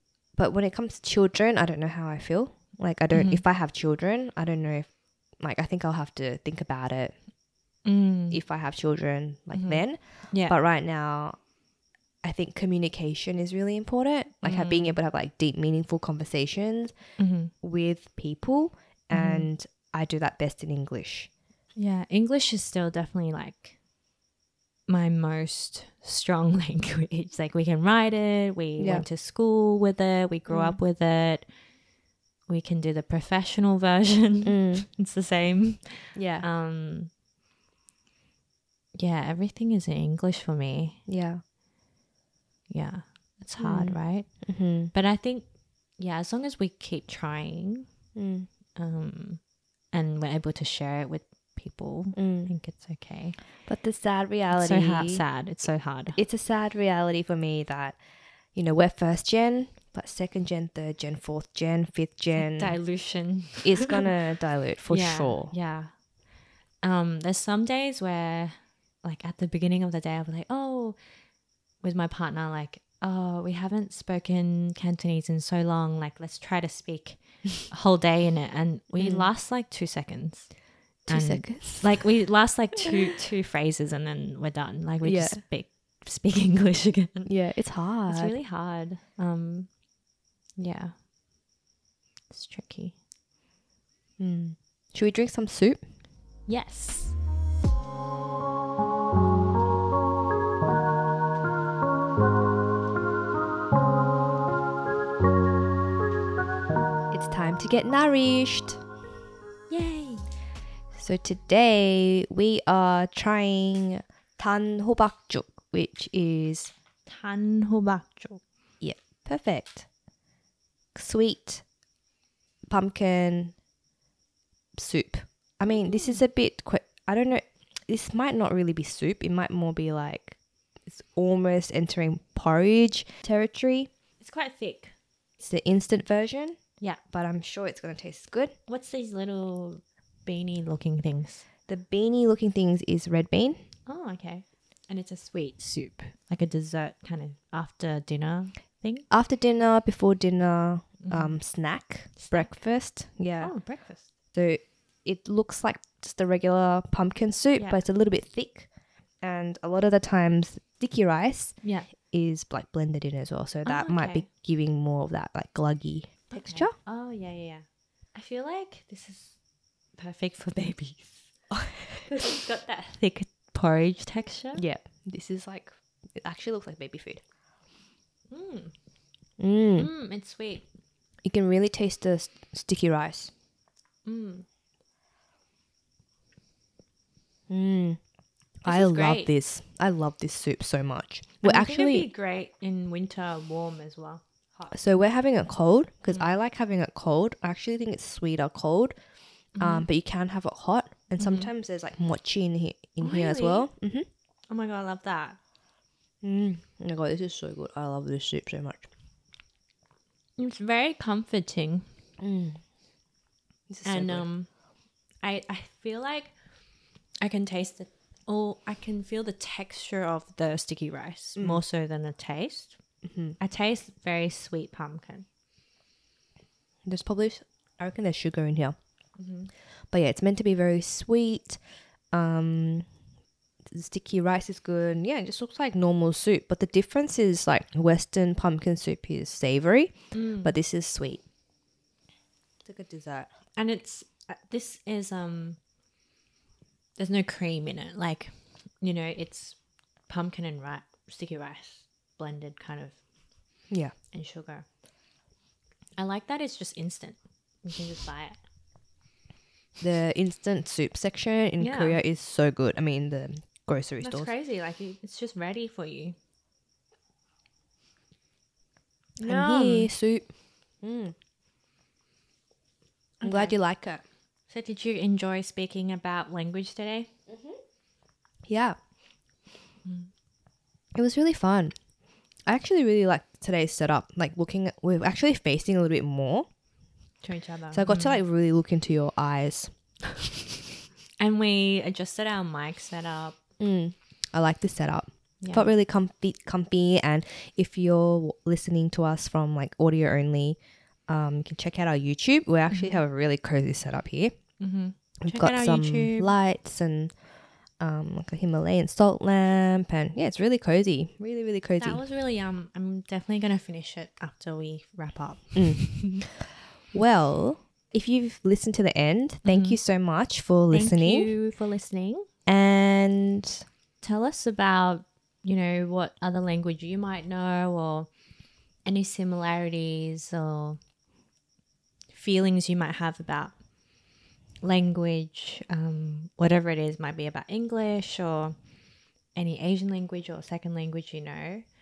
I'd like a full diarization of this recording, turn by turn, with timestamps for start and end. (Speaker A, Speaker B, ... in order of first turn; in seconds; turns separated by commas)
Speaker A: 0.3-7.2, Speaker B: 3.1-3.4, Speaker B: 7.8-8.4, Speaker A: 8.3-11.3, Speaker B: 9.5-10.6, Speaker A: 12.2-16.9, Speaker B: 14.4-14.9, Speaker B: 17.2-17.5, Speaker A: 17.6-21.3, Speaker B: 19.1-19.5, Speaker B: 21.8-23.8, Speaker B: 24.9-31.4, Speaker A: 28.8-29.1, Speaker A: 30.5-30.8, Speaker B: 32.5-37.1, Speaker A: 34.4-34.9, Speaker A: 36.1-36.5, Speaker B: 38.9-41.0, Speaker A: 41.1-41.4, Speaker B: 42.7-45.5, Speaker A: 43.6-44.9, Speaker B: 46.0-47.9, Speaker A: 48.1-48.5, Speaker B: 48.7-53.4, Speaker A: 52.1-52.5, Speaker A: 53.6-55.2, Speaker B: 54.5-56.2, Speaker A: 56.1-58.0, Speaker A: 58.5-62.8, Speaker B: 62.4-64.1, Speaker A: 63.6-65.5, Speaker B: 64.9-65.9, Speaker B: 66.8-71.0, Speaker B: 71.8-80.5, Speaker A: 79.0-79.3, Speaker A: 81.1-81.9, Speaker B: 81.1-87.3, Speaker A: 85.0-85.4, Speaker A: 87.2-88.3, Speaker B: 88.1-89.7, Speaker B: 90.6-90.9, Speaker B: 92.3-93.0, Speaker A: 94.2-95.8, Speaker B: 96.5-97.1, Speaker A: 107.1-108.8, Speaker B: 109.7-110.3, Speaker A: 110.9-116.7, Speaker B: 117.0-118.4, Speaker A: 118.8-119.9, Speaker A: 120.9-121.6, Speaker A: 122.7-123.5, Speaker A: 124.8-133.9, Speaker B: 125.7-126.2, Speaker B: 134.2-134.9, Speaker A: 135.4-136.6, Speaker A: 137.1-138.5, Speaker B: 138.7-141.4, Speaker A: 141.7-143.6, Speaker B: 143.9-149.1, Speaker A: 149.1-153.5, Speaker B: 151.0-151.3, Speaker B: 152.2-152.5, Speaker B: 153.4-154.1, Speaker A: 154.3-158.7, Speaker A: 159.2-166.7, Speaker B: 161.6-161.9, Speaker B: 163.6-164.2, Speaker B: 166.3-169.3, Speaker B: 170.0-171.3, Speaker A: 171.5-172.1, Speaker B: 172.1-174.6, Speaker A: 174.5-177.2, Speaker B: 178.3-178.7, Speaker A: 179.4-179.9, Speaker B: 179.8-180.7, Speaker A: 181.2-183.3, Speaker B: 184.0-184.4, Speaker A: 187.5-188.0, Speaker A: 188.6-192.1, Speaker B: 188.7-189.3, Speaker B: 191.4-194.7, Speaker A: 194.7-198.9, Speaker B: 199.6-199.8, Speaker A: 199.6-204.1, Speaker B: 201.2-201.5, Speaker B: 203.0-203.7, Speaker B: 204.5-205.4, Speaker A: 206.2-208.9, Speaker B: 210.4-211.8, Speaker A: 212.2-212.6, Speaker A: 213.7-214.2, Speaker B: 213.8-214.5, Speaker B: 215.2-216.3, Speaker B: 217.2-222.8, Speaker A: 223.0-223.4, Speaker B: 223.4-225.2, Speaker A: 226.8-228.7, Speaker B: 229.2-229.5, Speaker A: 229.9-231.6, Speaker A: 232.1-232.8, Speaker A: 233.7-241.2, Speaker B: 240.1-240.5, Speaker A: 242.6-243.3, Speaker B: 243.6-245.6, Speaker B: 247.0-249.6, Speaker B: 250.1-253.0, Speaker B: 254.1-254.6, Speaker B: 256.0-258.4, Speaker A: 259.8-264.3, Speaker B: 261.6-262.0, Speaker B: 264.0-266.1, Speaker B: 269.2-269.9, Speaker A: 269.2-271.1, Speaker A: 273.2-274.0, Speaker B: 273.2-273.5, Speaker B: 274.5-277.1, Speaker A: 277.3-277.6, Speaker A: 278.5-278.8, Speaker A: 280.9-281.7, Speaker A: 282.4-286.4, Speaker B: 287.2-288.2, Speaker A: 287.7-289.7, Speaker B: 291.2-293.4, Speaker A: 293.6-304.3, Speaker B: 295.4-295.7, Speaker B: 302.7-303.0, Speaker B: 304.6-306.3, Speaker A: 305.2-307.1, Speaker A: 307.8-312.0, Speaker B: 311.8-316.2, Speaker A: 315.5-316.0, Speaker A: 316.9-321.3, Speaker B: 319.4-319.8, Speaker B: 320.7-322.2, Speaker A: 322.4-323.6, Speaker B: 324.0-328.1, Speaker B: 328.9-330.8, Speaker B: 332.1-333.5, Speaker B: 334.6-338.5, Speaker B: 339.3-341.6